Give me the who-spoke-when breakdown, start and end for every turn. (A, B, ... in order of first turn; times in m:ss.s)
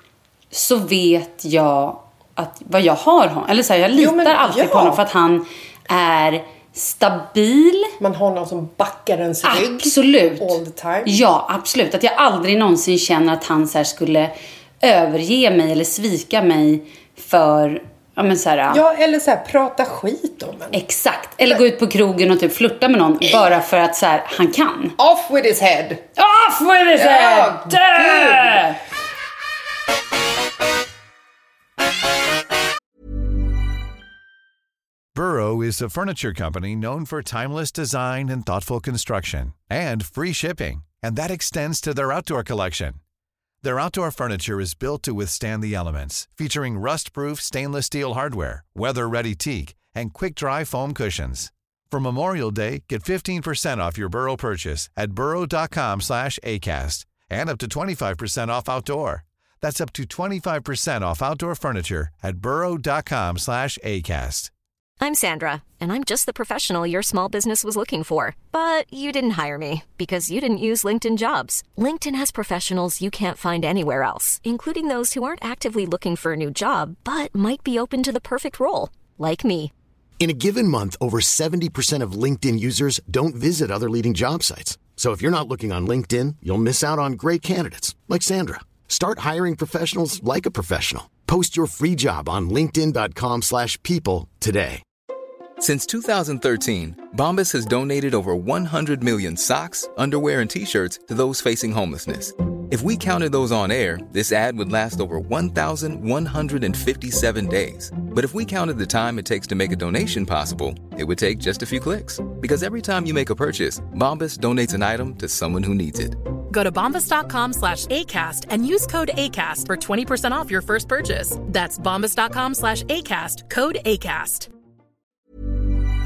0:00.5-0:07.9 A
0:04.0-0:05.0 B
0:08.0-0:11.1 B
0:09.4-0:18.8 A
0:18.7-0:20.8 B
0:20.7-0:25.0 A
0:23.2-0:23.5 B
0:25.0-0:26.0 B
0:26.2-0:28.8 A
0:27.0-0:28.7 B
0:35.2-0:43.0 C
0:43.6-1:04.5 C
1:05.0-1:19.7 D
1:20.2-1:34.8 E
1:35.6-1:56.2 F
1:56.5-2:04.5 G